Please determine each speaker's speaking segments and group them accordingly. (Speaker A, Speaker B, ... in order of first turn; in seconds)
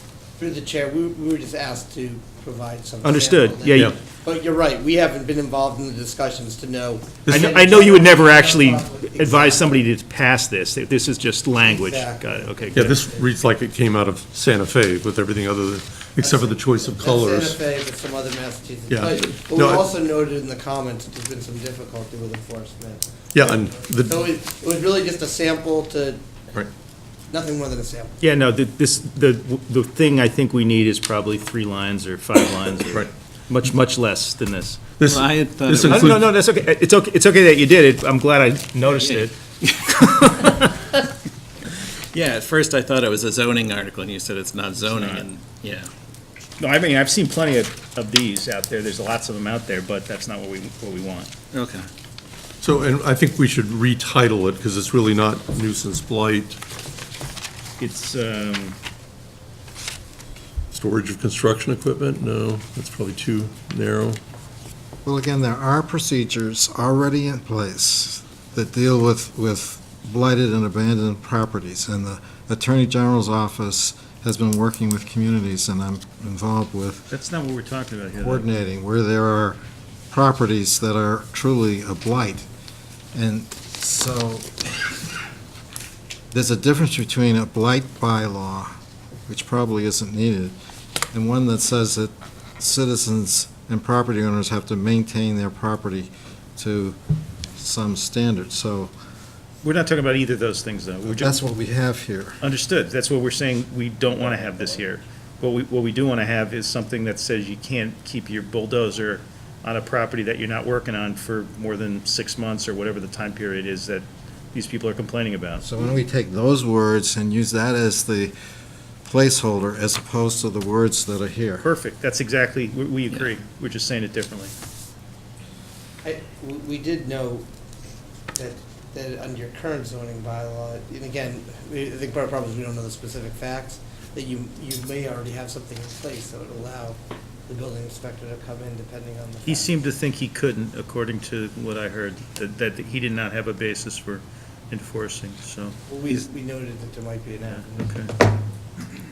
Speaker A: 0.4-9.8, 11.6-13.3, 16.2-26.2, 27.3-28.1, 126.0-127.5, 128.3-139.7, 145.9-148.1
Speaker B: 3.0-3.9, 7.3-12.9, 28.2-34.8, 35.9-39.4, 39.9-40.8, 44.8-45.2, 46.6-51.3, 57.8-58.8, 77.1-78.5, 99.6-101.4, 102.4-115.6, 121.6-124.5, 139.4-145.7, 147.5-148.1
Speaker C: 12.7-17.6, 18.9-19.9, 23.3-24.3, 32.8-33.1, 35.0-36.3, 52.6-56.6, 60.7-64.2
Speaker D: 35.0-36.1, 38.9-40.4, 42.1-45.9, 51.5-51.9
Speaker E: 65.0-77.1, 78.1-79.6, 80.1-82.5, 83.1-84.7, 86.3-88.7, 89.3-90.5, 91.1-97.0, 97.5-98.9, 101.0-102.4, 115.6-118.3, 119.0-121.6